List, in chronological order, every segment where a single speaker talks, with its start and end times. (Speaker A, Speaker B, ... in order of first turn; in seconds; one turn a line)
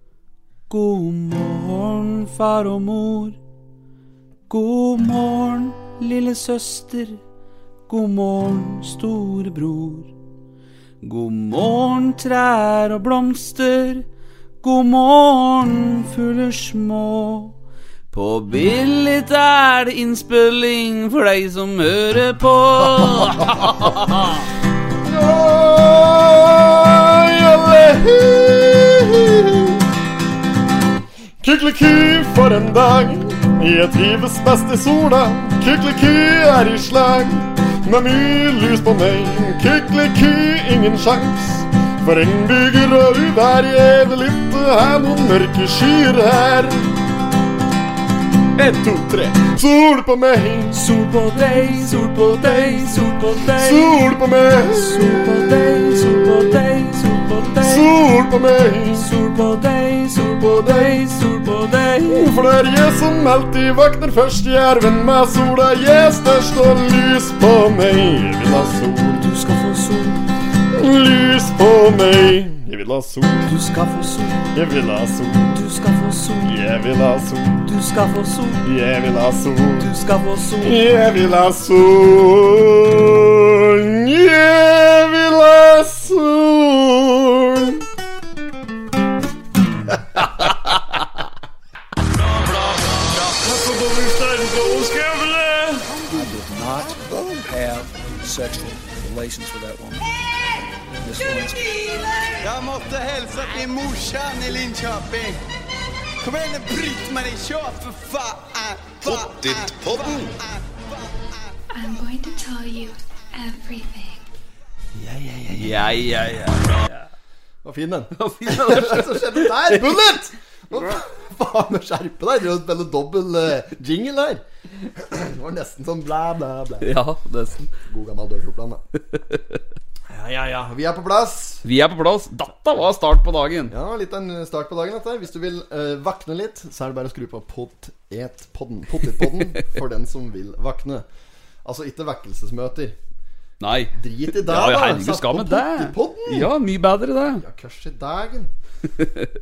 Speaker A: 0.7-3.4
Speaker A: 4.5-7.2
Speaker A: 7.9-10.1
Speaker A: 11.0-14.1
Speaker A: 14.6-17.5
Speaker A: 18.1-24.4
Speaker B: 25.1-25.4
Speaker C: 25.1-29.5
Speaker B: 26.0-26.4
Speaker C: 31.4-46.8
Speaker C: 48.6-50.7
Speaker A: 50.7-54.0
Speaker B: 53.6-54.5
Speaker C: 54.0-54.8
Speaker A: 54.7-57.9
Speaker B: 57.6-58.7
Speaker C: 57.8-59.0
Speaker A: 58.9-62.3
Speaker B: 62.1-62.8
Speaker C: 62.1-69.2
Speaker A: 69.2-70.2
Speaker C: 70.7-73.4
Speaker A: 73.4-74.5
Speaker C: 74.5-75.5
Speaker A: 75.5-76.6
Speaker C: 76.5-77.6
Speaker A: 77.6-78.6
Speaker C: 78.6-79.8
Speaker A: 79.8-80.8
Speaker C: 80.7-87.8
Speaker D: 92.0-100.1
Speaker B: 96.0-97.5
Speaker D: 101.0-102.3
Speaker E: 102.4-105.4
Speaker E: 106.2-111.3
Speaker F: 111.7-114.2
Speaker B: 114.9-115.8
Speaker A: 115.5-117.0
Speaker B: 117.6-127.0
Speaker A: 118.2-119.8
Speaker A: 126.8-127.7
Speaker B: 127.8-128.8
Speaker A: 129.1-129.6
Speaker B: 130.1-131.6
Speaker A: 131.6-133.7
Speaker B: 133.7-141.1
Speaker B: 141.6-143.0
Speaker A: 143.6-147.4
Speaker B: 143.9-146.5
Speaker B: 147.4-148.5
Speaker A: 149.0-149.3